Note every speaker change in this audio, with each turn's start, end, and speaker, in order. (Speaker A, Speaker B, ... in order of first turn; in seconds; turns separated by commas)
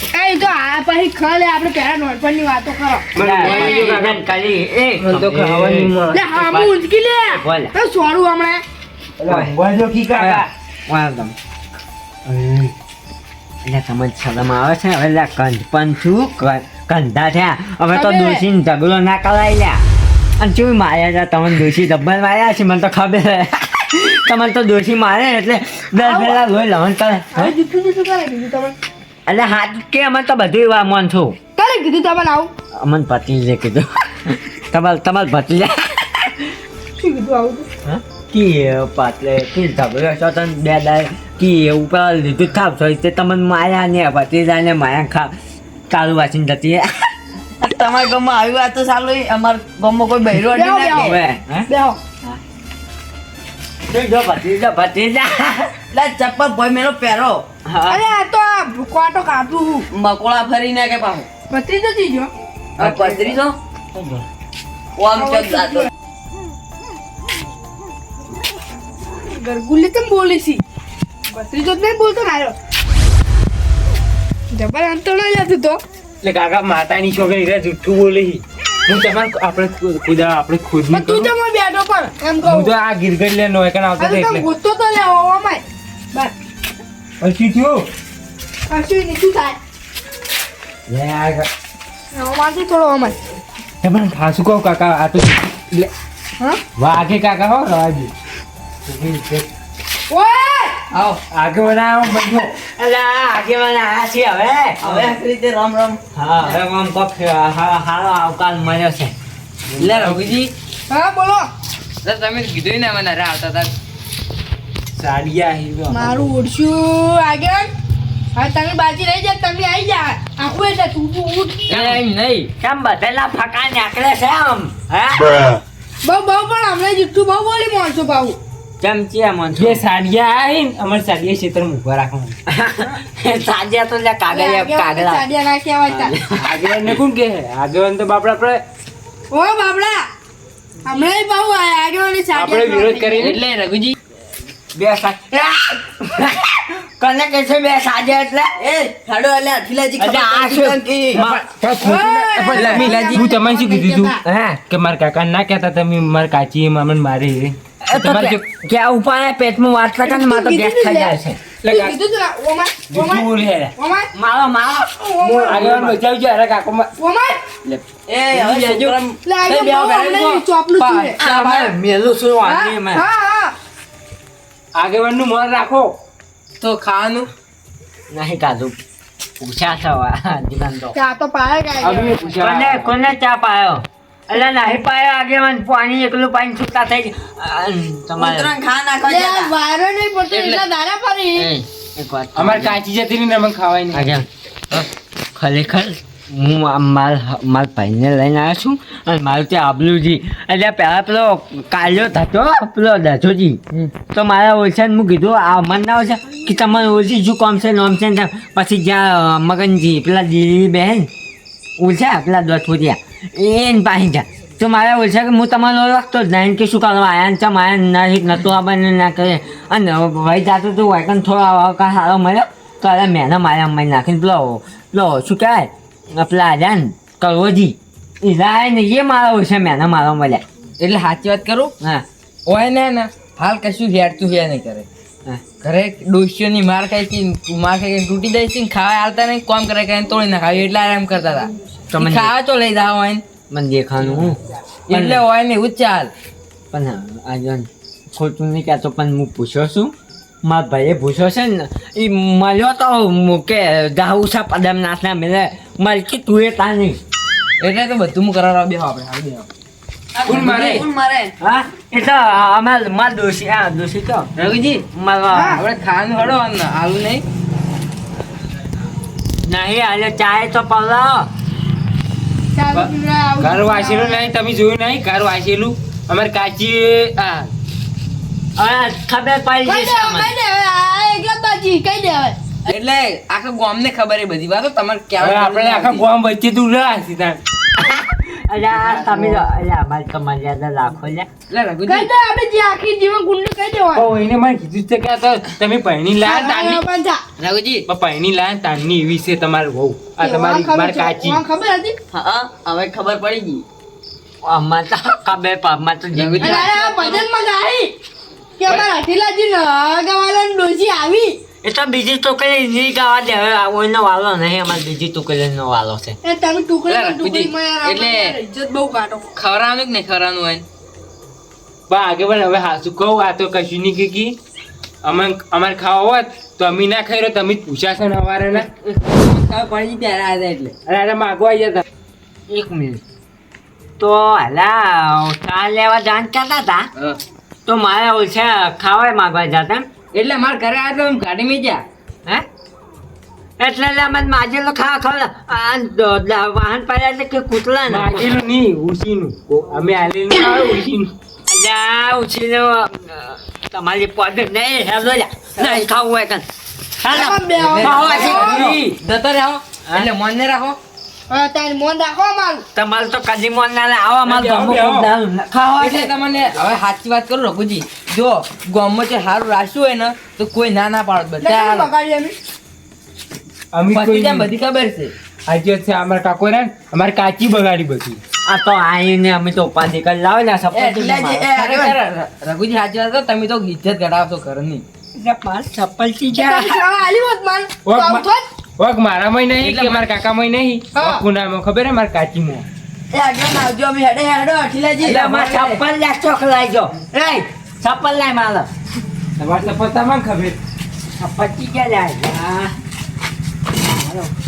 Speaker A: 0.1-3.9, Speaker B: 3.1-4.3, Speaker C: 3.2-6.8, Speaker B: 5.0-6.2, Speaker A: 6.1-8.6, Speaker C: 7.3-7.7, Speaker B: 9.2-10.5, Speaker C: 10.2-11.3, Speaker B: 12.3-12.7, Speaker C: 13.7-19.8, Speaker A: 17.9-18.4, Speaker C: 20.4-27.5, Speaker A: 26.0-26.4, Speaker A: 27.3-28.8, Speaker C: 29.3-31.4, Speaker A: 31.6-32.5, Speaker C: 32.8-36.5, Speaker A: 37.0-37.7, Speaker C: 37.8-45.3, Speaker C: 45.9-46.9, Speaker D: 47.6-51.2, Speaker A: 50.4-52.0, Speaker C: 51.1-51.6, Speaker C: 53.9-55.7, Speaker D: 55.9-57.5, Speaker C: 57.7-58.0, Speaker A: 57.9-59.9, Speaker D: 59.9-61.3, Speaker A: 61.5-62.3, Speaker D: 62.8-63.6, Speaker B: 64.0-64.2, Speaker D: 65.0-65.9, Speaker A: 65.2-65.9, Speaker A: 69.3-70.6, Speaker A: 71.3-72.5, Speaker A: 74.5-75.8, Speaker B: 76.2-81.3, Speaker A: 80.9-82.7, Speaker B: 82.4-84.5, Speaker A: 84.0-86.3, Speaker B: 87.2-87.9, Speaker A: 88.7-89.6, Speaker B: 90.9-91.5, Speaker A: 92.1-93.2, Speaker B: 93.8-95.9, Speaker B: 96.8-98.1, Speaker B: 98.9-99.5, Speaker A: 100.1-100.8, Speaker B: 101.3-102.5, Speaker C: 102.6-104.8, Speaker D: 104.8-106.0, Speaker C: 106.2-109.1, Speaker B: 109.7-110.3, Speaker E: 109.8-110.5, Speaker A: 110.9-111.5, Speaker E: 112.0-113.7, Speaker B: 115.0-116.3, Speaker A: 115.9-117.7, Speaker A: 118.3-121.8, Speaker E: 121.7-122.5, Speaker C: 121.7-122.0, Speaker C: 122.6-125.2, Speaker A: 126.0-128.4, Speaker C: 128.8-129.8, Speaker B: 129.6-132.4, Speaker C: 132.5-135.2, Speaker A: 134.3-136.2, Speaker C: 135.9-136.4, Speaker B: 136.4-138.6, Speaker A: 139.3-140.1, Speaker A: 140.8-143.3, Speaker B: 142.3-143.4, Speaker E: 143.2-144.0, Speaker C: 144.8-148.5, Speaker D: 148.6-151.2, Speaker C: 150.0-151.4, Speaker B: 151.1-154.1, Speaker A: 151.8-154.2, Speaker E: 152.6-153.3, Speaker C: 154.3-154.6, Speaker B: 154.7-158.4, Speaker C: 157.8-161.4, Speaker A: 160.0-164.1, Speaker B: 161.6-162.0, Speaker B: 162.9-163.7, Speaker C: 164.2-166.0, Speaker A: 164.9-165.7, Speaker B: 165.4-166.9, Speaker A: 167.0-167.4, Speaker E: 167.7-168.9, Speaker D: 168.1-169.1, Speaker A: 169.2-171.2, Speaker E: 169.5-171.7, Speaker D: 171.2-171.7, Speaker C: 171.2-173.0, Speaker A: 172.4-173.5, Speaker B: 174.8-175.9, Speaker E: 176.6-177.3, Speaker C: 178.1-178.8, Speaker C: 179.4-180.9, Speaker A: 180.9-182.3, Speaker B: 181.8-183.0, Speaker C: 182.4-188.5, Speaker D: 188.2-189.5, Speaker A: 189.1-191.5, Speaker E: 190.3-190.6, Speaker C: 191.3-192.8, Speaker B: 192.3-194.2, Speaker C: 193.9-211.1, Speaker C: 211.8-230.4, Speaker E: 230.8-231.7, Speaker E: 232.5-234.9, Speaker E: 235.6-243.2, Speaker C: 241.9-242.3, Speaker C: 243.5-244.4, Speaker E: 244.9-246.1, Speaker C: 244.9-245.2, Speaker C: 246.7-249.9, Speaker C: 250.4-257.0, Speaker E: 257.6-259.5, Speaker D: 260.1-261.3, Speaker E: 260.3-260.9, Speaker B: 260.3-260.8, Speaker C: 261.4-264.3, Speaker E: 264.4-264.9, Speaker C: 264.9-265.6, Speaker A: 265.3-265.6, Speaker E: 265.4-267.2, Speaker C: 269.5-271.3, Speaker A: 272.5-274.3, Speaker B: 272.7-277.5, Speaker C: 278.6-280.3, Speaker A: 279.6-282.4, Speaker E: 282.7-286.1, Speaker B: 285.2-287.4, Speaker C: 287.8-291.3, Speaker B: 288.7-289.5, Speaker E: 291.5-292.1, Speaker A: 291.9-294.1, Speaker B: 293.9-296.8, Speaker A: 296.2-297.2, Speaker E: 297.4-297.9, Speaker B: 297.9-301.4, Speaker A: 300.2-302.0, Speaker D: 302.1-303.6, Speaker C: 304.4-306.7, Speaker E: 306.1-307.2, Speaker A: 306.4-307.9, Speaker A: 308.6-311.4, Speaker C: 311.6-316.2, Speaker A: 316.2-319.3, Speaker E: 316.9-318.4, Speaker E: 319.4-320.6, Speaker B: 321.9-324.4, Speaker B: 325.0-328.7, Speaker E: 328.5-330.8, Speaker B: 330.9-331.8, Speaker C: 332.5-333.0, Speaker C: 334.0-336.9, Speaker C: 337.7-339.9, Speaker E: 340.1-341.9, Speaker C: 343.6-348.3, Speaker B: 347.9-351.1, Speaker C: 351.5-356.4, Speaker E: 355.6-355.8, Speaker C: 357.0-359.0, Speaker A: 357.1-358.8, Speaker E: 357.6-360.8, Speaker A: 361.3-362.7, Speaker C: 362.8-366.1, Speaker B: 364.2-365.1, Speaker E: 365.7-371.9, Speaker A: 371.4-372.4, Speaker B: 373.7-374.5, Speaker E: 373.9-375.1, Speaker B: 375.5-378.2, Speaker C: 378.5-381.6, Speaker E: 380.7-384.8, Speaker D: 381.0-382.0, Speaker C: 385.2-386.8, Speaker A: 386.3-388.5, Speaker B: 387.9-388.2, Speaker B: 388.8-392.7, Speaker E: 389.6-390.1, Speaker A: 390.9-391.2, Speaker D: 393.1-395.4, Speaker C: 395.1-398.7, Speaker E: 395.1-395.8, Speaker B: 399.4-400.6, Speaker C: 401.2-402.7, Speaker C: 403.9-404.4